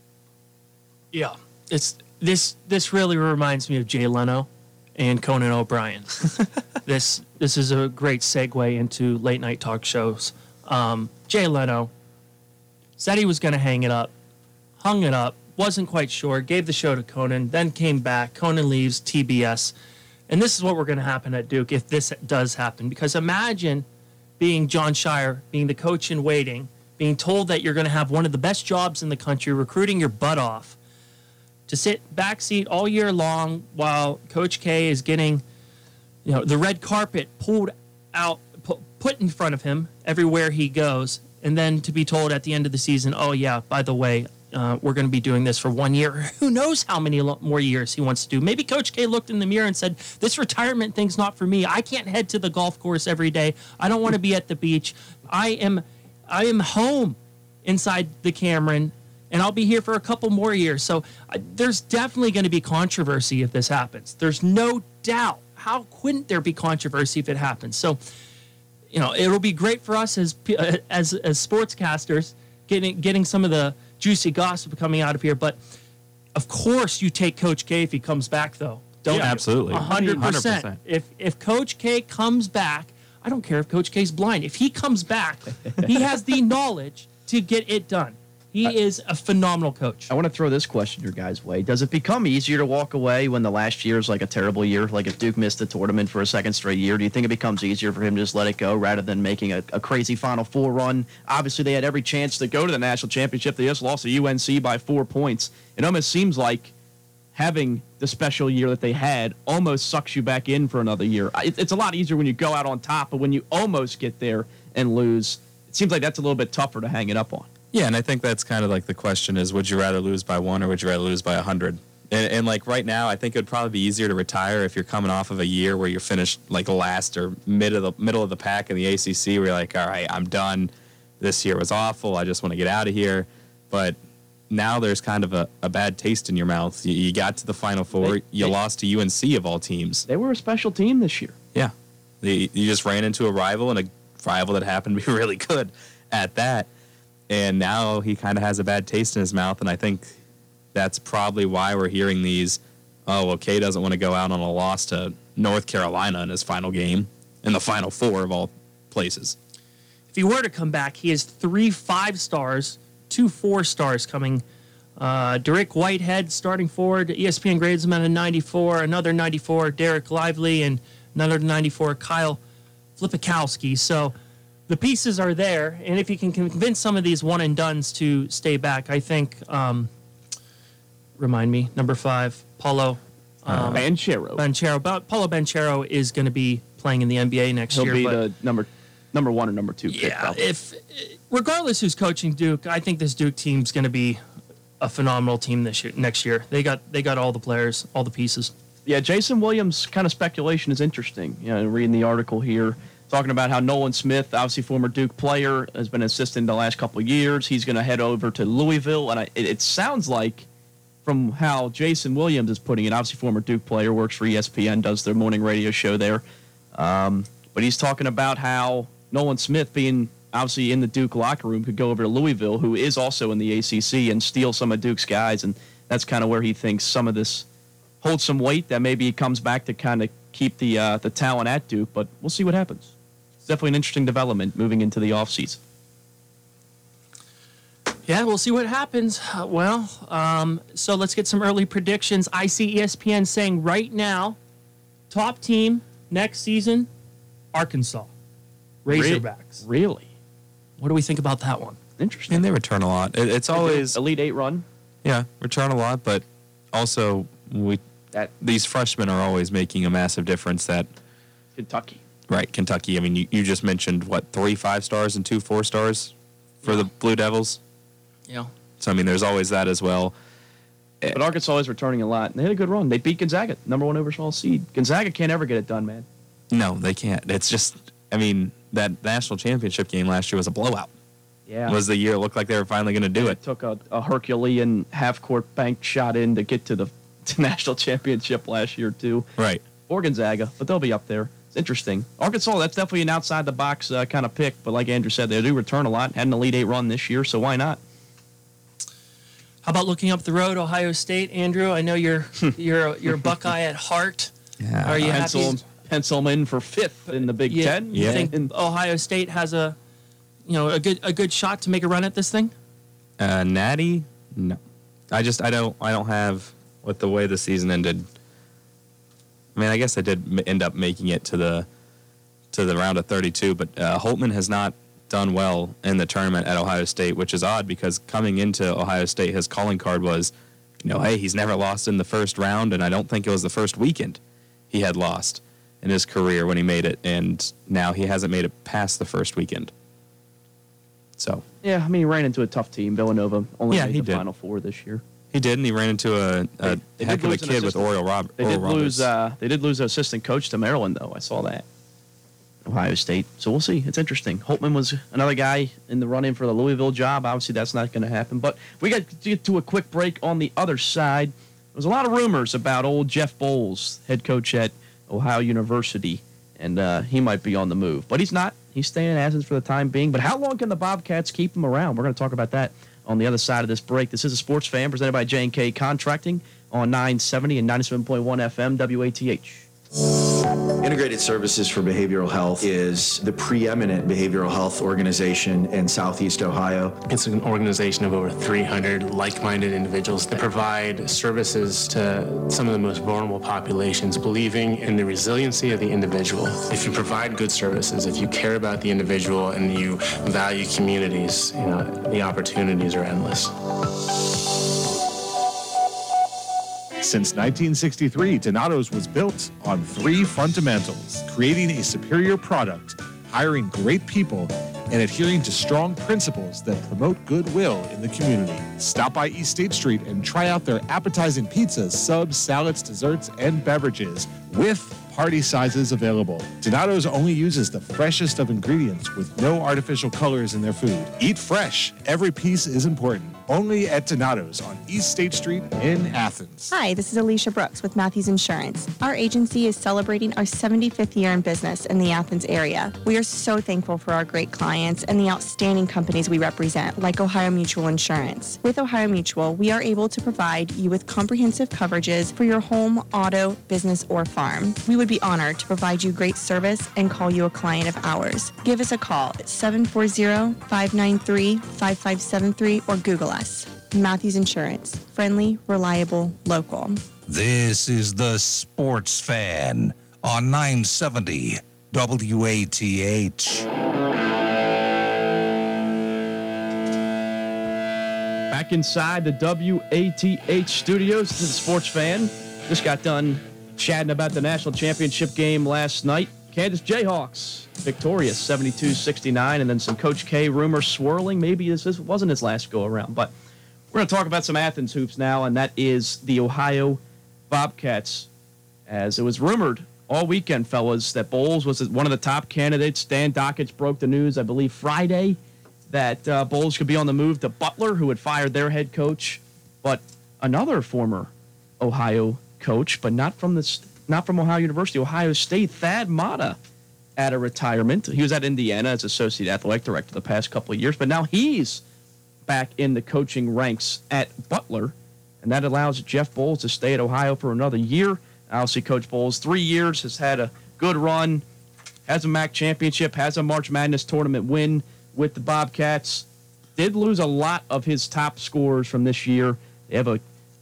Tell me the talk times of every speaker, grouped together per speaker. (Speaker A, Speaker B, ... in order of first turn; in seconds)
Speaker A: 1.1-6.3, 6.8-11.9, 13.0-14.1, 14.8-19.7, 20.3-23.9, 24.4-30.8, 31.7-35.4, 36.2-68.0, 68.9-75.6, 76.3-90.1, 160.1-164.4, 165.0-172.4, 173.0-174.1, 174.7-179.9, 181.2-188.2, 189.9-194.2, 194.8-198.5, 238.1-244.4, 245.1-246.9, 247.5-248.1, 248.8-249.6, 250.8-251.8, 299.6-304.3, 304.8-305.6, 307.1-309.8, 310.5-312.5
Speaker B: 79.1-80.3, 90.1-106.7, 107.3-117.5, 137.9-138.6, 140.1-141.3, 183.7-184.4, 187.7-190.4, 198.9-210.5, 211.1-216.2, 216.7-227.4, 228.0-232.9, 233.4-235.6, 248.9-250.1, 252.0-252.4, 253.5-254.6, 261.6-262.0, 271.1-276.1, 281.5-281.8, 283.1-289.3, 289.9-297.8, 305.1-308.5, 341.6-345.0, 346.6-351.6, 352.6-379.6, 478.5-493.3, 493.9-498.3, 498.9-505.4, 505.9-516.6, 517.2-521.8, 522.5-531.4, 532.1-536.2, 536.8-540.2
Speaker C: 79.1-80.8, 117.7-134.0, 134.5-140.1, 141.6-146.7, 147.3-150.2, 150.7-159.4, 183.5-183.8, 252.3-254.0, 255.0-257.8, 258.4-260.9, 262.3-266.1, 266.6-267.6, 268.8-270.1, 276.5-280.9, 281.7-283.4, 289.4-289.6, 304.6-305.3, 307.9-308.3, 313.2-314.6, 315.1-318.1, 319.6-321.7, 322.5-334.2, 334.7-339.7, 341.2-341.4, 343.7-344.2, 345.3-349.1
Speaker D: 380.8-387.0
Speaker E: 387.1-403.5
Speaker F: 407.0-436.7
Speaker G: 436.7-467.0
Speaker H: 467.3-473.6